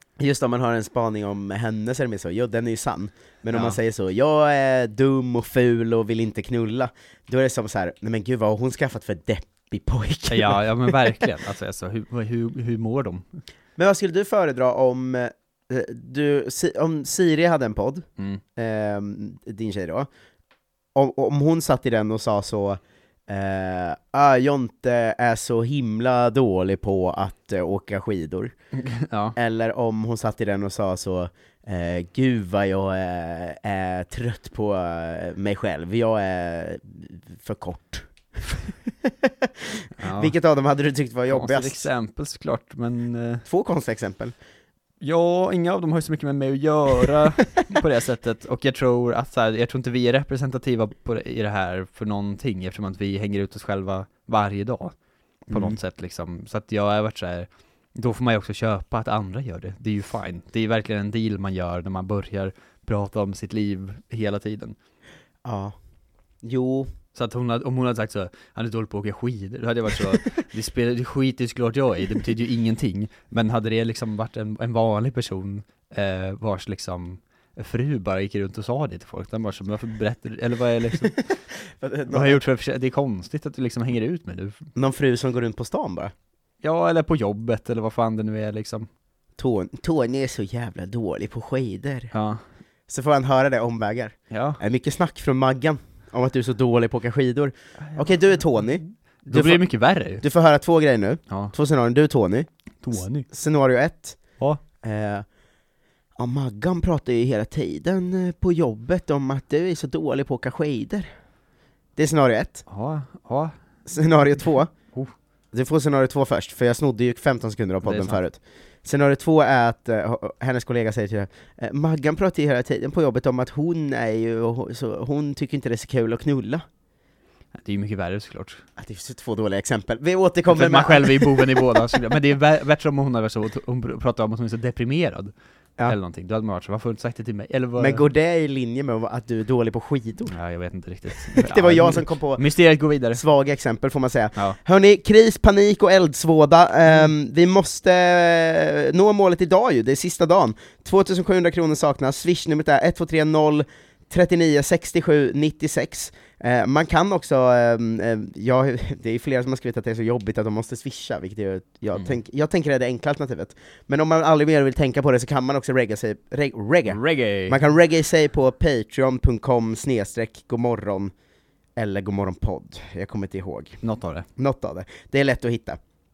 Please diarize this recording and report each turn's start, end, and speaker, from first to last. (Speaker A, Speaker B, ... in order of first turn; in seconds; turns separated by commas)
Speaker A: 0.2-10.9, Speaker B: 3.5-3.8, Speaker B: 10.3-13.4, Speaker A: 13.8-18.0, Speaker A: 18.6-20.1, Speaker A: 20.9-28.5, Speaker B: 28.7-29.4, Speaker A: 29.4-41.9, Speaker B: 40.0-40.3, Speaker B: 41.3-43.4, Speaker A: 43.5-44.3, Speaker B: 45.0-54.9, Speaker B: 55.5-64.8, Speaker A: 65.4-65.7, Speaker A: 66.4-66.9, Speaker B: 67.1-81.2, Speaker A: 81.8-82.4, Speaker B: 82.1-84.6, Speaker A: 84.7-86.1, Speaker B: 86.6-88.9, Speaker A: 89.4-92.1, Speaker B: 92.1-92.4, Speaker A: 92.9-99.6, Speaker B: 94.3-94.6, Speaker B: 99.2-100.2, Speaker A: 100.2-104.2, Speaker B: 101.3-101.5, Speaker B: 102.8-103.3, Speaker A: 104.8-105.2, Speaker A: 106.2-111.1, Speaker A: 112.0-112.6, Speaker B: 112.7-113.5, Speaker A: 113.8-114.7, Speaker A: 115.5-126.6, Speaker B: 117.8-118.2, Speaker B: 127.5-128.6, Speaker A: 128.8-131.7, Speaker B: 130.5-135.3, Speaker B: 135.8-138.0, Speaker A: 137.8-140.3, Speaker B: 140.3-143.2, Speaker A: 141.3-142.4, Speaker A: 143.1-171.1, Speaker B: 166.9-167.6, Speaker A: 171.8-173.8, Speaker B: 173.8-174.3, Speaker A: 174.4-175.8